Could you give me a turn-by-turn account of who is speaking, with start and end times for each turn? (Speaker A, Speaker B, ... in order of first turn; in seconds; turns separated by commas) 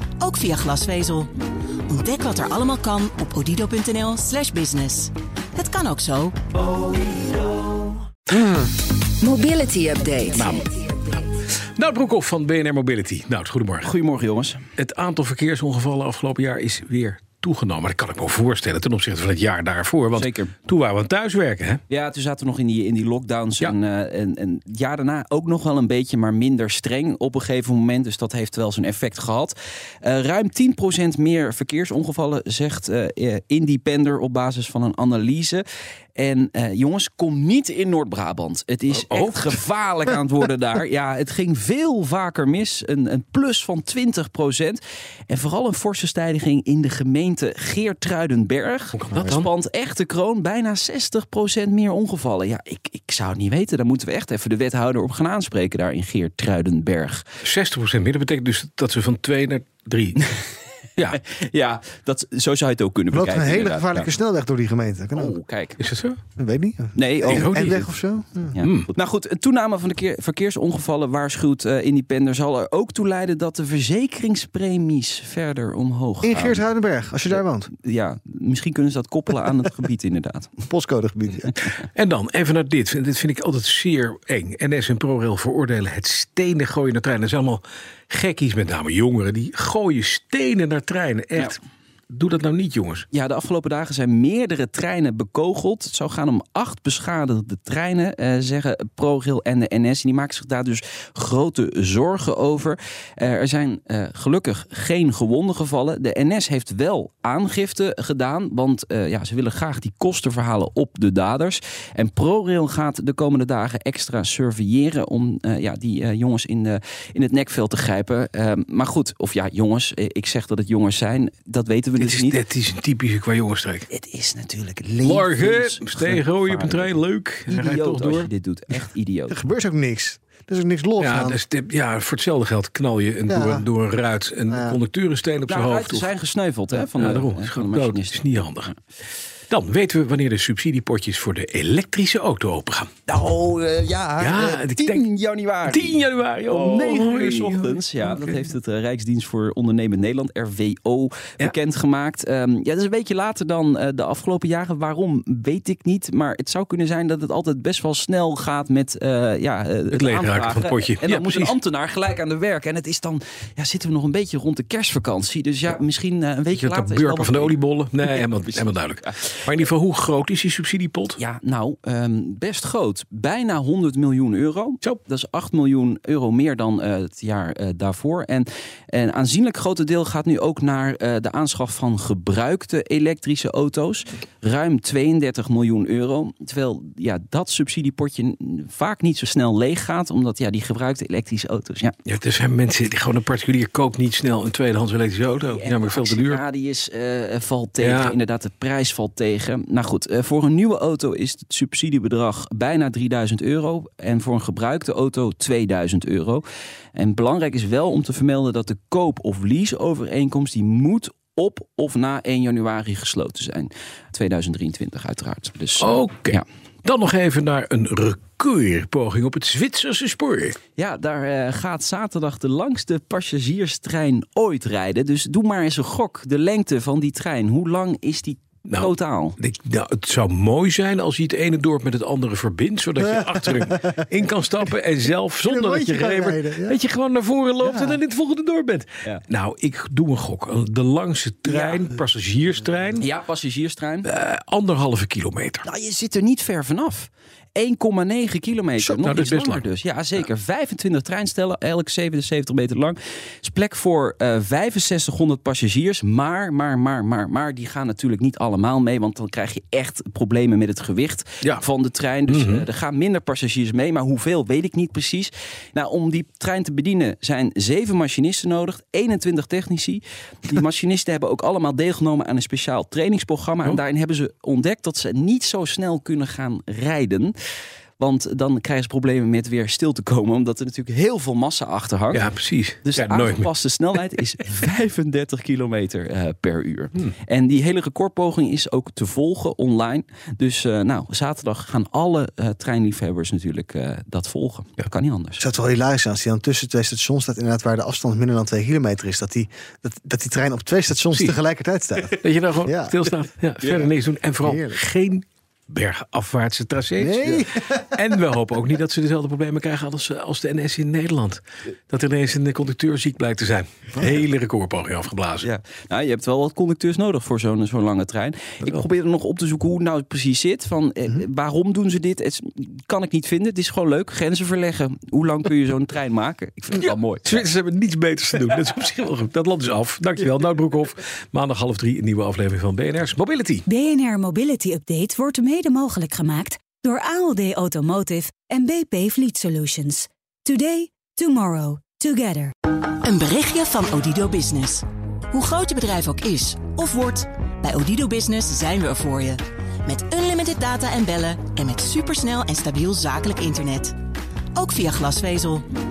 Speaker A: 0.2-1.3, Speaker A: 1.9-6.4, Speaker B: 8.3-8.6, Speaker B: 9.2-11.0, Speaker C: 10.3-13.9, Speaker D: 13.8-14.7, Speaker C: 14.8-21.8, Speaker D: 20.1-20.5, Speaker D: 21.9-35.6, Speaker D: 36.2-57.3, Speaker C: 38.9-39.6, Speaker C: 48.9-49.5, Speaker C: 57.4-60.2, Speaker D: 61.0-64.1, Speaker E: 63.1-65.4, Speaker D: 65.2-65.8, Speaker C: 65.8-66.2, Speaker E: 66.4-68.6, Speaker D: 67.0-67.3, Speaker C: 67.2-68.0, Speaker D: 68.5-76.7, Speaker C: 68.6-68.9, Speaker E: 76.2-77.7, Speaker D: 77.3-80.6, Speaker E: 80.7-81.5, Speaker C: 81.6-91.6, Speaker C: 92.1-93.1, Speaker D: 93.1-122.4, Speaker C: 122.0-123.9, Speaker D: 123.9-129.4, Speaker C: 125.0-128.3, Speaker E: 129.3-131.4, Speaker C: 131.0-136.1, Speaker E: 133.3-133.7, Speaker E: 134.5-134.8, Speaker D: 135.5-138.7, Speaker C: 136.7-138.7, Speaker C: 139.5-142.9, Speaker D: 143.1-169.3, Speaker C: 144.2-145.1, Speaker C: 145.7-148.5, Speaker C: 159.9-161.6, Speaker C: 166.5-171.2, Speaker D: 171.2-191.9, Speaker C: 192.1-196.4, Speaker D: 195.5-206.4, Speaker C: 197.8-198.2, Speaker D: 207.0-216.4, Speaker C: 215.8-220.6, Speaker D: 220.8-229.4, Speaker C: 228.7-243.1, Speaker E: 233.0-234.0, Speaker E: 235.4-236.8, Speaker E: 237.6-238.0, Speaker D: 241.5-241.9, Speaker D: 243.0-244.1, Speaker C: 244.0-245.7, Speaker D: 245.6-277.3, Speaker C: 248.8-250.2, Speaker C: 262.3-262.7, Speaker D: 278.0-282.3, Speaker C: 282.1-283.5, Speaker D: 282.8-295.4, Speaker E: 295.4-303.0, Speaker C: 302.1-315.5, Speaker E: 304.4-304.8, Speaker E: 307.0-307.9, Speaker D: 315.4-327.4, Speaker C: 318.6-318.9, Speaker C: 326.7-333.6, Speaker B: 333.7-342.5, Speaker A: 342.9-353.9, Speaker A: 354.6-355.7